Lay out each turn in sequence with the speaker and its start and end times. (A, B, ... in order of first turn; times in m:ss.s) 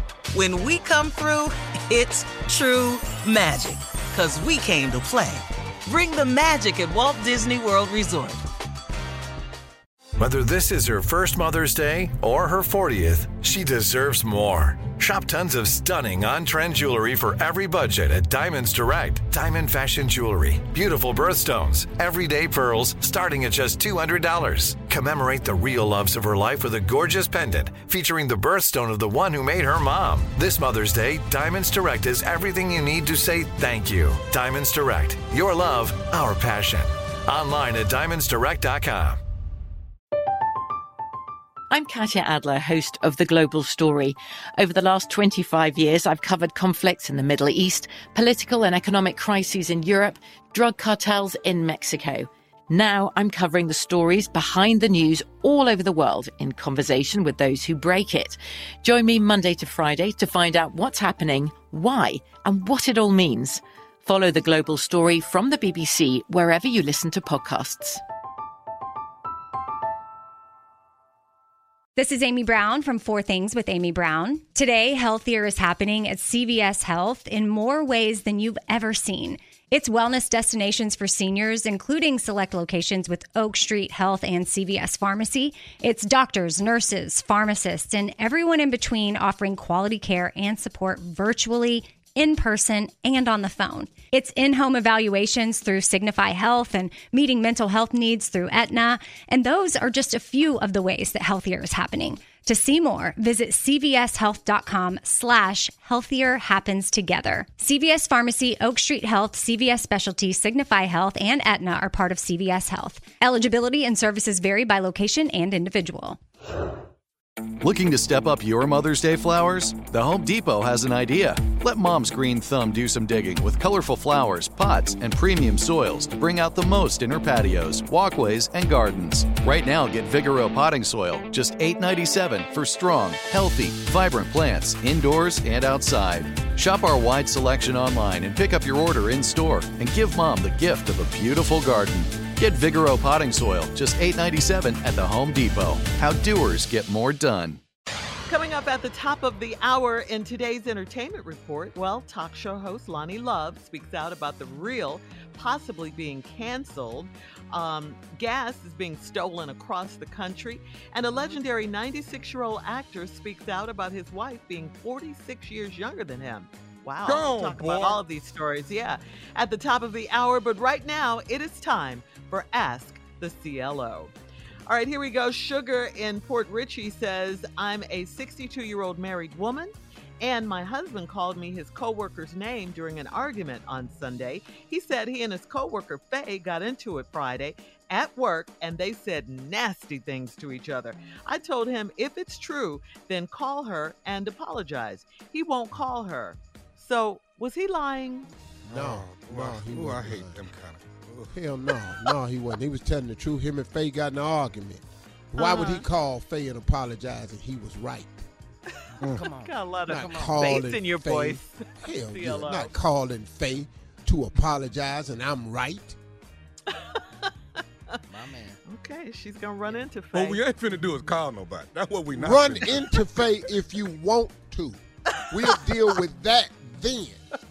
0:00.3-0:08.4 A
0:10.2-0:39.2 B
0:41.7-1:08.0 C
1:12.0-1:56.2 D
1:57.6-2:27.6 E
2:28.3-2:54.1 F
2:47.0-2:48.0 G
2:54.7-2:59.7 F
3:00.2-3:18.3 F
3:18.6-3:21.3 G
3:18.7-3:20.4 H
3:21.3-3:28.2 H
3:25.4-3:25.8 F
3:28.7-3:32.8 F
3:29.0-3:30.4 G
3:29.9-3:36.0 H
3:36.7-3:37.0 F
3:38.1-3:38.6 G
3:38.6-3:40.8 F
3:39.7-3:42.8 G
3:42.1-3:47.2 H